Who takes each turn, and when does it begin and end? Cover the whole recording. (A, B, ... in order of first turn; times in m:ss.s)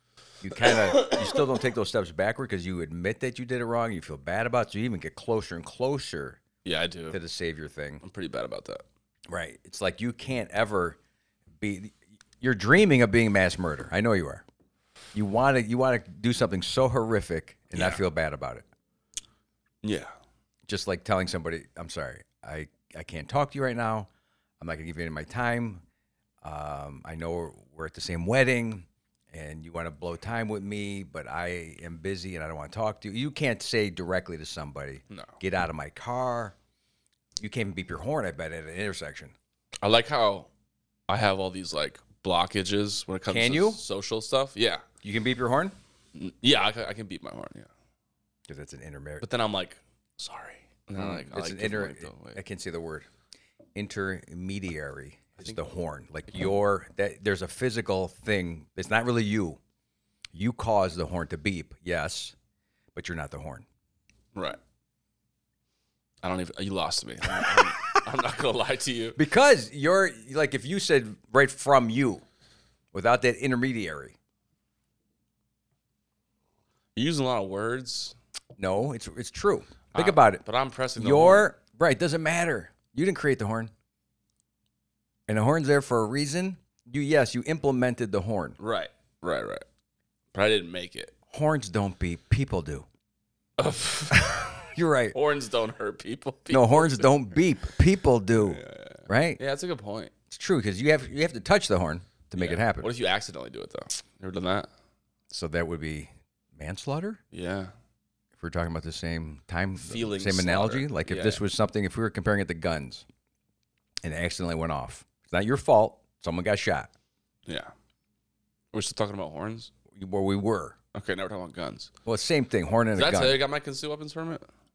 0:00.4-0:06.4 A
0:00.7-0:01.1 B
0:06.6-0:07.2 B
0:07.1-0:08.0 A
0:08.0-0:08.8 B
0:09.3-0:11.0 A
0:11.6-0:14.4 A
0:15.1-0:18.6 A
0:17.7-0:18.0 B
0:19.8-0:20.1 B
0:20.7-0:24.1 A
0:24.6-0:25.8 A
0:26.4-0:36.5 A
0:35.1-0:35.4 B
0:37.4-0:39.3 A
0:39.8-0:40.5 B
0:41.1-0:44.8 B
0:43.3-0:43.8 A
0:45.0-0:45.7 A
0:46.1-0:47.7 B
0:48.5-0:49.2 A
0:49.2-0:52.4 B
0:51.0-0:53.1 A
0:53.7-0:59.6 A
1:00.3-1:02.3 A
1:02.9-1:03.6 A
1:04.3-1:04.6 B
1:06.2-1:09.2 B
1:07.4-1:07.8 A
1:09.2-1:12.2 A
1:12.9-1:14.1 A
1:17.0-1:18.2 B
1:18.6-1:20.4 A
1:19.9-1:21.5 B
1:21.0-1:23.7 A
1:25.3-1:28.6 A
1:28.6-1:29.6 B
1:30.3-1:31.1 B
1:31.3-1:32.9 A
1:33.6-1:37.3 B
1:34.1-1:35.2 A
1:36.5-1:39.4 A
1:38.3-1:40.1 B
1:40.3-1:42.9 A
1:42.3-1:44.7 B
1:45.3-1:47.2 A
1:47.3-1:47.7 B
1:48.4-1:53.0 A
1:49.8-1:51.4 B
1:54.0-1:56.9 A
1:57.4-1:57.7 B
1:58.7-1:59.7 B
1:59.9-2:00.8 A
2:00.9-2:01.9 B
2:02.0-2:03.4 A
2:02.9-2:04.4 B